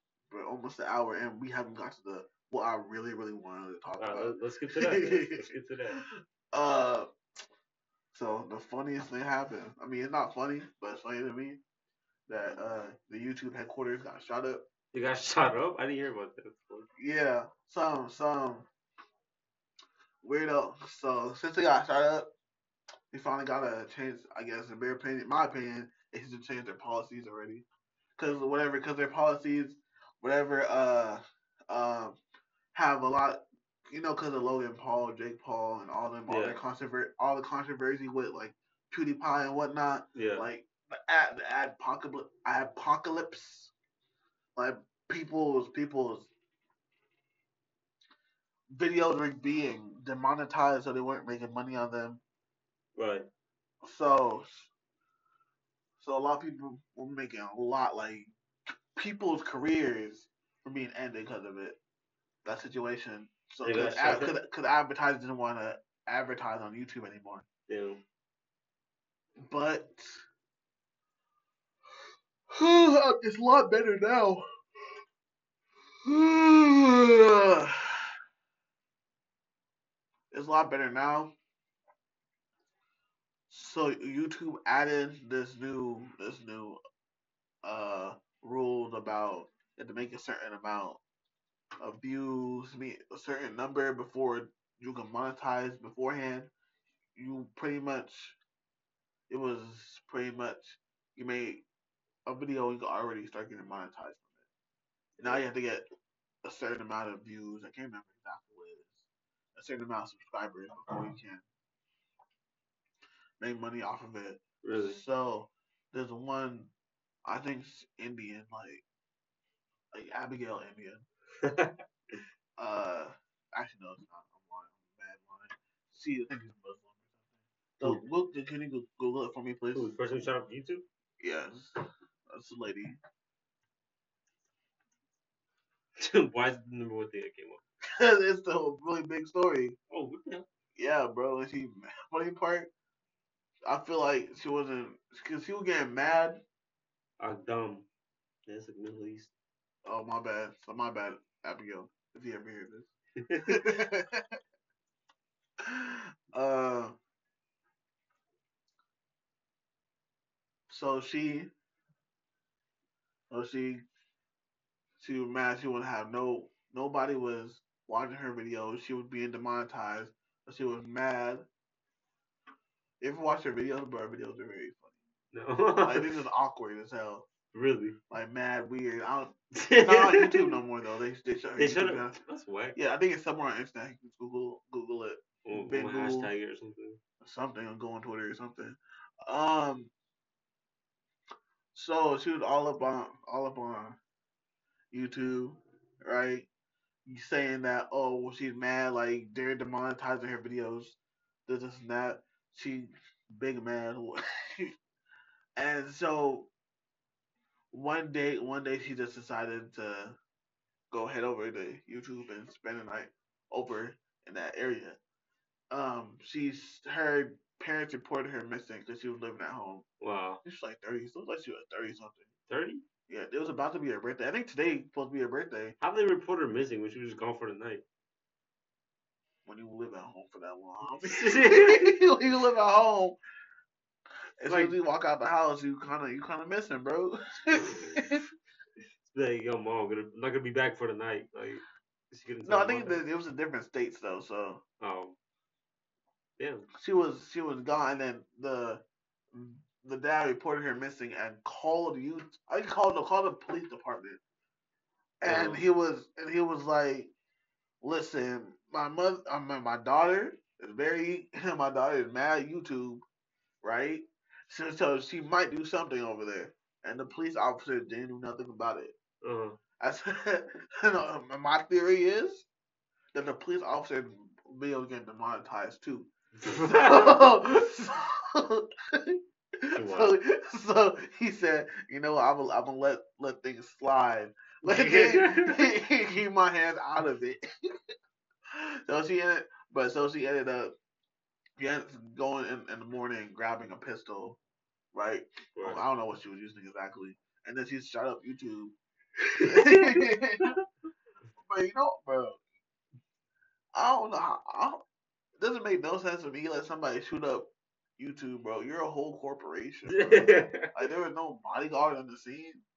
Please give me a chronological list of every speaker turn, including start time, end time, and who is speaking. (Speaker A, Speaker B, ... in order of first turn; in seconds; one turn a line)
Speaker A: 0.3-5.5
Speaker B: 4.0-6.0
Speaker A: 6.5-7.1
Speaker A: 8.1-11.6
Speaker A: 12.3-14.6
Speaker B: 14.9-16.9
Speaker A: 17.0-18.7
Speaker A: 20.2-22.3
Speaker A: 23.1-27.6
Speaker A: 28.2-32.2
Speaker A: 32.7-43.7
Speaker B: 36.3-36.6
Speaker B: 40.1-40.5
Speaker A: 44.5-46.3
Speaker A: 48.7-52.2
Speaker B: 52.9-53.3
Speaker A: 53.8-54.7
Speaker A: 56.0-58.3
Speaker A: 58.9-61.8
Speaker A: 62.4-67.5
Speaker B: 63.6-64.4
Speaker B: 67.7-68.0
Speaker A: 69.4-70.2
Speaker A: 72.5-74.4
Speaker A: 76.0-78.1
Speaker A: 80.3-81.3
Speaker A: 83.5-86.8
Speaker A: 87.6-91.0
Speaker A: 91.8-96.5
Speaker A: 97.2-98.4
Speaker A: 99.3-101.6
Speaker A: 102.2-104.3
Speaker B: 105.2-105.5
Speaker A: 105.2-105.8
Speaker A: 106.4-111.4
Speaker A: 113.4-116.7
Speaker B: 114.6-115.0
Speaker A: 117.2-118.8
Speaker A: 119.9-121.0
Speaker B: 121.4-121.8
Speaker A: 122.6-129.9
Speaker B: 129.7-130.8
Speaker A: 131.2-131.8
Speaker A: 132.3-133.0
Speaker B: 136.0-137.6
Speaker A: 137.9-139.8
Speaker B: 139.9-140.5
Speaker A: 140.8-142.7
Speaker A: 143.6-146.4
Speaker B: 147.2-147.9
Speaker B: 148.5-149.3
Speaker A: 149.8-152.9
Speaker B: 153.2-153.7
Speaker A: 153.5-154.2
Speaker A: 155.6-156.9
Speaker A: 160.7-161.5
Speaker A: 163.3-163.8
Speaker A: 165.0-171.4
Speaker A: 173.0-174.9
Speaker B: 175.3-176.2
Speaker A: 175.8-177.3
Speaker B: 177.5-178.0
Speaker A: 178.1-182.2
Speaker B: 179.5-180.5
Speaker B: 181.6-182.8
Speaker A: 182.8-186.3
Speaker B: 185.4-187.0
Speaker A: 187.2-189.9
Speaker A: 191.7-194.0
Speaker A: 194.9-196.5
Speaker A: 197.1-204.7
Speaker A: 205.6-206.5
Speaker A: 207.7-210.2
Speaker A: 210.9-215.0
Speaker A: 215.7-219.8
Speaker B: 220.0-220.4
Speaker A: 220.4-222.3
Speaker B: 222.5-222.8
Speaker A: 223.1-225.7
Speaker B: 225.8-227.8
Speaker A: 229.4-233.2
Speaker B: 231.0-232.0
Speaker A: 234.4-238.2
Speaker B: 234.5-234.8
Speaker B: 237.5-238.1
Speaker B: 239.0-243.0
Speaker A: 242.4-244.6
Speaker B: 244.8-245.2
Speaker B: 246.4-246.7
Speaker A: 246.7-254.2
Speaker A: 255.2-257.1
Speaker B: 255.2-255.7
Speaker A: 257.8-263.0
Speaker A: 263.6-268.9
Speaker B: 269.2-269.6
Speaker A: 269.8-272.5
Speaker A: 273.1-287.7
Speaker B: 276.4-277.2
Speaker B: 279.7-280.1
Speaker B: 284.6-285.7
Speaker A: 288.5-290.7
Speaker A: 291.6-294.4
Speaker A: 294.9-298.7
Speaker B: 295.6-295.8
Speaker A: 299.3-300.5
Speaker B: 299.4-300.5
Speaker A: 301.4-302.4
Speaker A: 303.7-304.8
Speaker A: 305.4-312.6
Speaker B: 309.9-310.8